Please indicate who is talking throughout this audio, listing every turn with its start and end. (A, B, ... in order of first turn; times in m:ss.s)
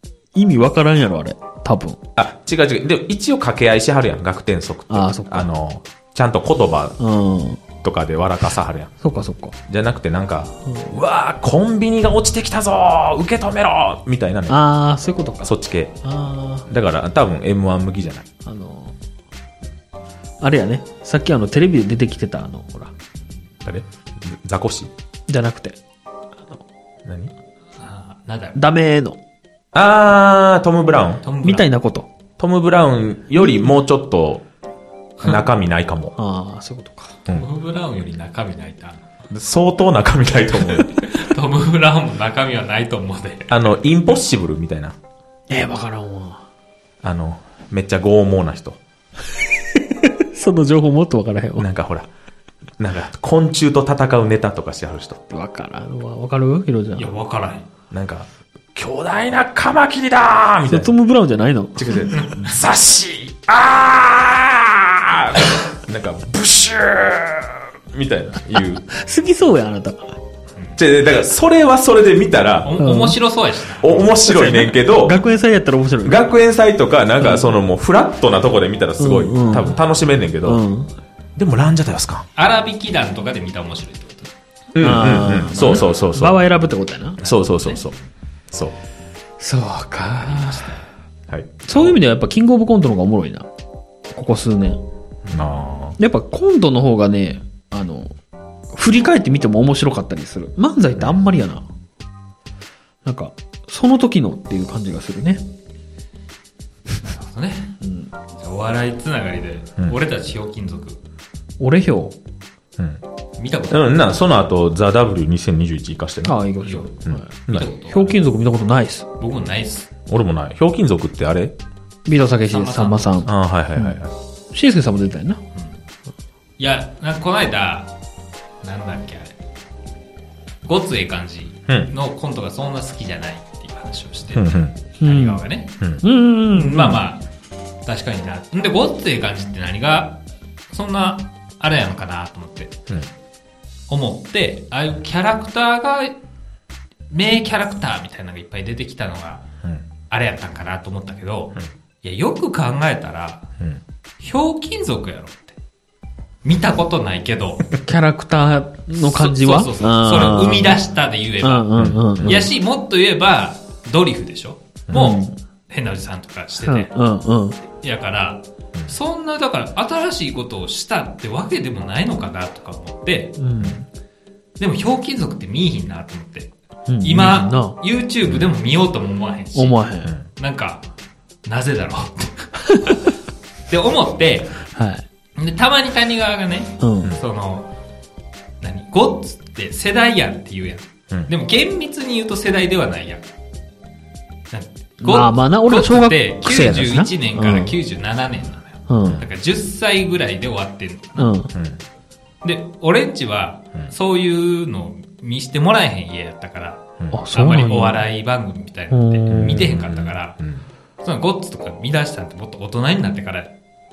0:00.3-0:02.0 A
0:02.2-0:07.0 B
0:04.9-0:05.5 A
0:07.0-0:07.6 A
0:07.8-0:08.9 B
0:09.0-0:09.5 A
0:09.7-0:14.6 B
0:14.5-0:15.5 A
0:15.4-0:15.9 B
0:16.0-0:16.6 A
0:16.7-0:18.2 B
0:18.4-0:18.9 A
0:20.4-0:22.9 A
0:23.6-0:24.9 B
0:25.3-0:25.8 A
0:27.0-0:27.3 B
0:27.8-0:28.6 C
0:28.5-0:29.2 A
0:29.7-0:31.2 B
0:31.2-0:31.6 C
0:31.4-0:32.1 A
0:32.4-0:34.4 B
0:35.2-0:36.2 B
0:36.2-0:37.2 A
0:37.3-0:39.0 C
0:39.3-0:41.0 B
0:40.7-0:43.5 C
0:43.5-0:44.9 B
0:45.5-0:46.4 A
0:47.0-0:48.8 B
0:49.7-0:51.7 A
0:51.6-0:52.1 B
0:52.8-0:55.2 B
0:55.3-0:57.1 A
0:57.0-0:57.7 C
0:57.9-1:00.9 B
1:00.7-1:01.8 A
1:01.8-1:08.8 B
1:02.1-1:02.4 C
1:08.9-1:10.1 A
1:10.8-1:12.7 B
1:12.6-1:14.1 C
1:12.8-1:13.2 A
1:13.8-1:15.2 B
1:14.2-1:16.2 A
1:16.0-1:20.6 B
1:17.2-1:17.4 A
1:19.0-1:19.8 A
1:20.4-1:20.9 A
1:21.4-1:22.3 B
1:22.4-1:24.3 C
1:24.7-1:26.4 B
1:24.8-1:27.2 A
1:27.2-1:27.8 C
1:27.2-1:28.0 B
1:28.5-1:28.8 B
1:29.4-1:30.8 A
1:30.3-1:30.8 C
1:31.3-1:31.6 B
1:31.6-1:33.5 A
1:34.1-1:34.8 A
1:35.2-1:35.6 C
1:35.3-1:36.0 B
1:36.0-1:38.1 A
1:38.7-1:41.6 A
1:43.0-1:45.4 A
1:47.0-1:47.8 C
1:47.8-1:48.1 A
1:48.3-1:51.0 C
1:51.6-1:52.2 A
1:53.4-1:54.1 C
1:53.7-1:56.4 B
1:56.2-1:59.1 A
1:56.6-1:56.9 C
1:57.0-1:57.7 B
1:57.5-1:58.2 C
1:59.2-1:59.9 C
2:00.1-2:01.6 B
2:02.1-2:04.0 A
2:02.4-2:03.3 C
2:03.2-2:04.1 B
2:04.5-2:05.4 A
2:05.5-2:05.8 C
2:06.6-2:07.9 C
2:08.6-2:09.3 C
2:10.6-2:15.8 C
2:14.3-2:14.8 B
2:15.0-2:15.4 A
2:16.0-2:17.0 A
2:16.5-2:17.2 C
2:17.8-2:20.2 C
2:20.7-2:22.8 C
2:23.9-2:26.2 C
2:27.1-2:29.4 C
2:30.1-2:33.5 C
2:34.2-2:35.6 C
2:36.4-2:37.7 C
2:37.8-2:40.8 A
2:39.0-2:46.9 C
2:41.4-2:42.5 A
2:41.8-2:42.5 B
2:44.9-2:45.2 B
2:44.9-2:45.4 A
2:46.6-2:47.6 A
2:47.8-2:53.4 C
2:53.4-2:53.8 A
2:54.6-3:00.8 C
2:56.9-2:57.8 A
2:58.2-2:58.5 B
2:59.5-3:00.1 A
3:01.4-3:03.1 C
3:03.7-3:04.6 C
3:04.7-3:05.0 A
3:05.4-3:07.7 C
3:06.8-3:07.2 A
3:08.6-3:13.2 C
3:14.5-3:21.3 C
3:15.0-3:17.8 A
3:18.9-3:19.2 A
3:21.2-3:21.5 A
3:21.5-3:21.8 B
3:22.4-3:30.4 C
3:27.1-3:28.0 A
3:28.9-3:29.7 A
3:29.3-3:30.6 B
3:31.0-3:33.5 C